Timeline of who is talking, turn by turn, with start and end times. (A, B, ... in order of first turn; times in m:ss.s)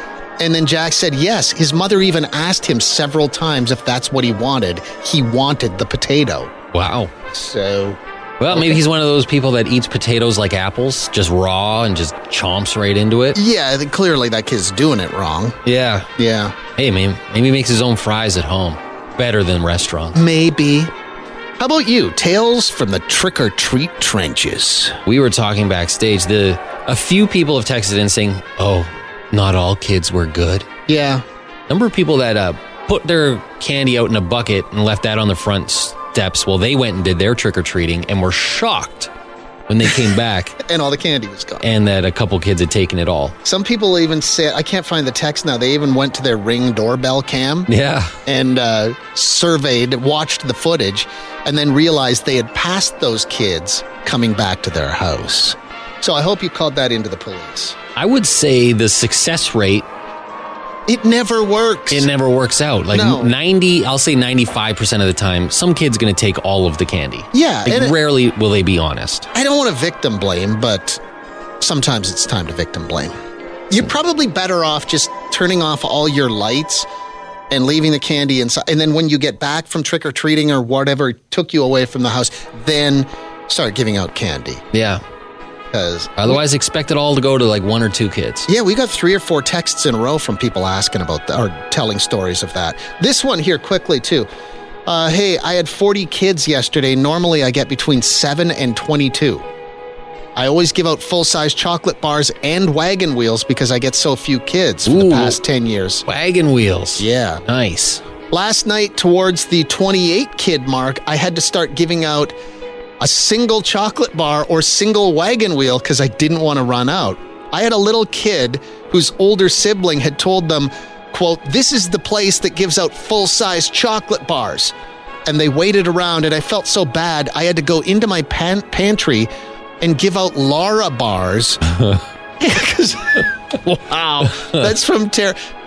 0:00.4-0:06.5 A
0:06.7-0:07.2 B
0:07.3-0:08.8 A
0:08.4-0:13.4 B
0:13.4-0:15.6 A
0:15.6-0:16.1 B
0:16.2-0:16.6 A
0:16.8-0:20.2 B
0:20.2-0:20.9 A
0:21.6-0:25.0 A
0:25.1-0:30.7 B
0:30.9-0:31.2 A
0:31.7-0:39.1 B
0:39.7-0:40.6 B
0:40.6-0:41.6 A
0:41.6-0:43.4 B
0:43.4-0:47.7 A
0:47.7-0:48.1 B
0:48.3-0:57.8 A
0:58.0-0:59.9 B
1:00.9-1:02.1 A
1:01.9-1:09.3 B
1:02.9-1:03.3 A
1:07.3-1:08.0 A
1:09.3-1:11.0 A
1:11.6-1:13.1 A
1:13.7-1:16.9 A
1:17.5-1:24.6 A
1:24.7-1:25.0 B
1:25.7-1:26.4 A
1:26.2-1:28.5 B
1:28.5-1:34.3 A
1:34.9-1:39.4 A
1:40.4-1:46.1 A
1:44.9-1:45.4 B
1:46.1-1:48.0 B
1:47.0-1:47.4 A
1:48.3-1:52.3 A
1:53.0-2:04.7 A
2:05.3-2:09.3 A
2:09.8-2:11.6 A
2:12.4-2:15.4 A